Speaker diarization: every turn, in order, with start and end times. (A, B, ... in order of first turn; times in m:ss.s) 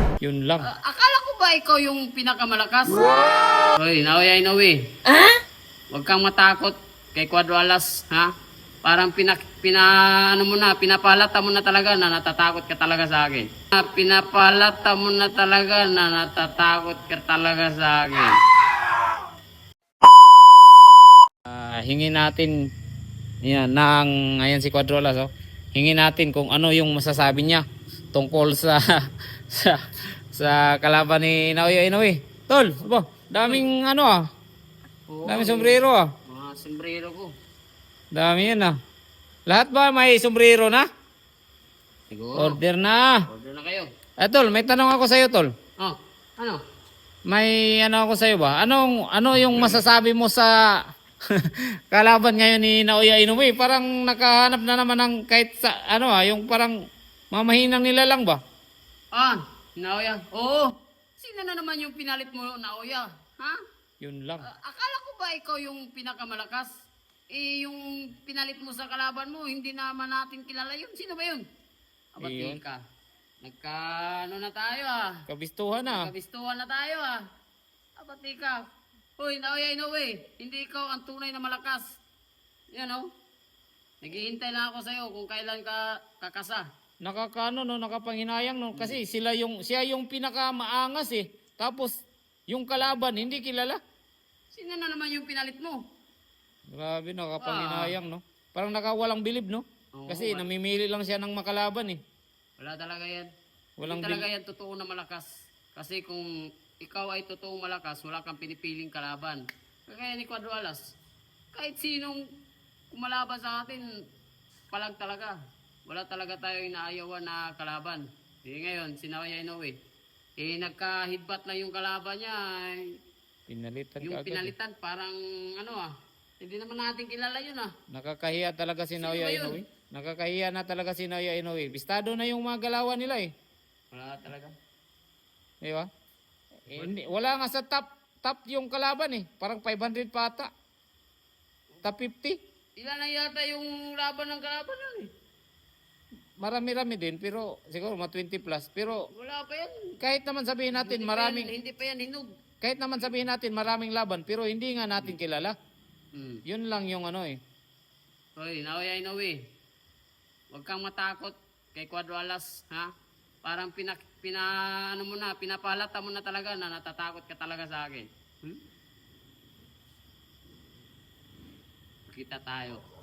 0:00.2-0:00.6 A
0:00.7-0:03.1 B
0:03.8-0:04.8 B
0:05.9-0:08.3 B
0:08.8-0:18.3 B
0:21.4-0:22.5 A
0:23.4-0:28.8 A
0:29.5-0:29.8 A
0:30.3-0:34.2 A
0:35.1-0:37.3 B
0:35.2-0:36.0 A
0:38.1-0:38.8 A
0:39.5-0:40.8 A
0:42.1-0:42.6 B
0:42.4-0:43.1 A
0:43.3-0:43.9 B
0:44.2-0:45.5 A
0:45.8-0:46.6 B
0:47.3-0:50.7 A
0:49.4-0:49.8 B
0:51.4-0:56.7 A
0:57.3-0:58.4 A
0:59.1-1:03.6 B
1:04.0-1:04.4 A
1:04.5-1:06.7 B
1:07.3-1:11.4 B
1:12.1-1:12.8 B
1:12.2-1:12.6 A
1:13.4-1:15.1 B
1:15.3-1:16.1 A
1:15.9-1:17.2 B
1:18.0-1:18.6 B
1:19.2-1:21.8 B
1:22.7-1:23.1 B
1:24.0-1:26.6 B
1:27.0-1:31.9 A
1:32.5-1:33.8 A
1:34.5-1:35.8 B
1:36.7-1:42.0 A
1:37.4-1:37.9 B
1:40.0-1:40.4 B
1:42.6-1:43.3 B
1:43.8-1:44.2 A
1:43.8-1:46.2 B
1:46.8-1:50.8 B
1:51.5-1:52.2 B
1:52.9-1:53.8 B
1:54.7-1:55.3 B
1:55.9-1:59.7 B
2:00.4-2:02.9 B
2:03.5-2:04.5 A
2:04.0-2:07.7 B
2:07.9-2:13.3 A
2:09.0-2:09.6 B
2:13.9-2:14.5 B
2:15.6-2:15.9 A
2:16.7-2:20.5 A
2:21.8-2:22.4 A
2:22.8-2:25.1 B
2:26.4-2:29.0 A
2:29.1-2:29.8 B
2:30.0-2:31.5 A
2:30.7-2:32.2 B
2:32.6-2:35.5 A
2:36.1-2:36.4 B
2:36.5-2:37.4 A
2:38.4-2:39.4 B
2:40.5-2:42.9 B
2:43.4-2:48.6 B
2:52.1-2:52.8 B